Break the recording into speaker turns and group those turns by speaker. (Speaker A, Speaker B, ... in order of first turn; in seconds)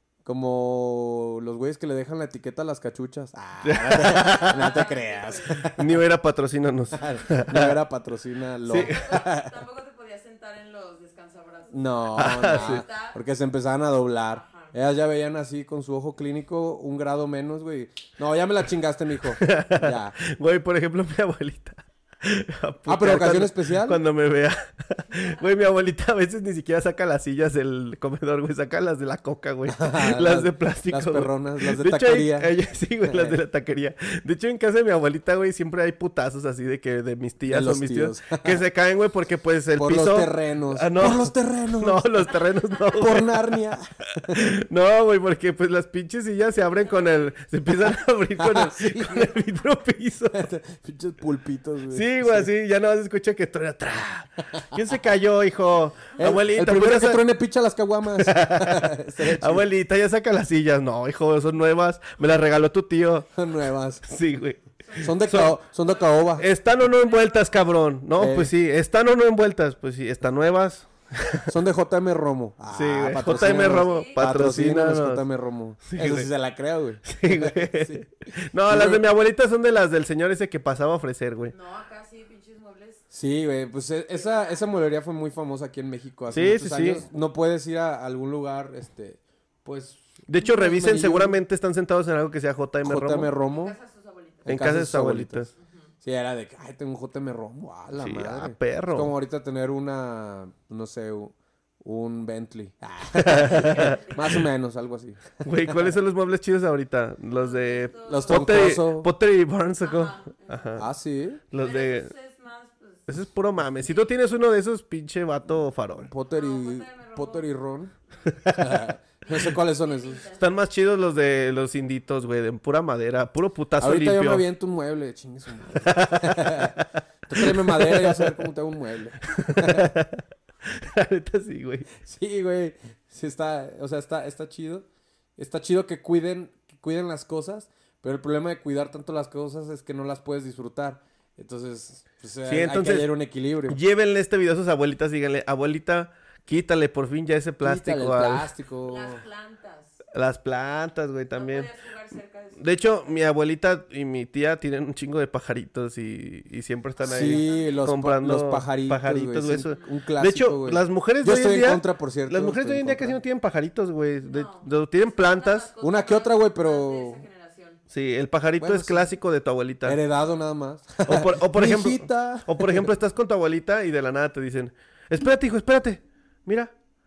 Speaker A: 0.2-5.9, 6.9-9.5, 11.7-20.2, 22.9-24.0, 29.7-32.5, 33.0-33.4, 37.5-38.6, 39.8-42.1, 42.9-44.4, 48.4-49.3, 50.3-52.5, 56.2-59.7, 63.3-64.1, 65.0-66.5, 68.2-68.5, 71.5-78.1, 78.7-79.0, 83.1-91.4, 92.8-93.7, 94.5-95.5, 96.0-105.8, 108.1-109.1, 110.8-111.4, 116.1-117.9, 118.5-120.2, 123.8-129.9, 132.0-134.9, 135.4-143.8, 147.6-149.2, 157.1-163.2, 165.8-167.2, 168.6-169.1, 169.8-172.9
Speaker B: 3.6-4.9, 5.7-7.8, 8.7-9.0, 12.2-12.8, 19.4-43.5, 44.3-50.5, 51.9-57.2, 58.1-63.3, 64.0-65.6, 66.4-71.5, 72.7-75.2, 75.8-76.3, 77.0-81.5, 86.3-87.0, 90.3-93.3, 94.5-95.5, 98.0-99.1, 103.2-104.4, 105.4-110.9, 111.5-112.1, 113.1-116.1, 118.3-118.8, 120.4-124.4, 125.8-128.4, 129.3-131.9, 142.5-143.1, 143.7-148.5, 150.1-151.7, 152.6-165.7, 167.9-170.0, 171.1-176.7
Speaker C: 3.9-5.6, 8.7-13.2, 14.3-14.7, 64.9-65.2, 65.8-67.5, 73.3-74.2, 81.5-83.0, 84.2-84.7, 93.4-94.5, 95.6-95.9, 103.4-104.4, 107.3-108.8, 109.8-110.8, 111.6-113.2, 113.8-114.1, 116.3-117.5, 119.2-120.5, 148.9-150.0, 151.3-153.2, 157.0-157.8, 164.2-167.8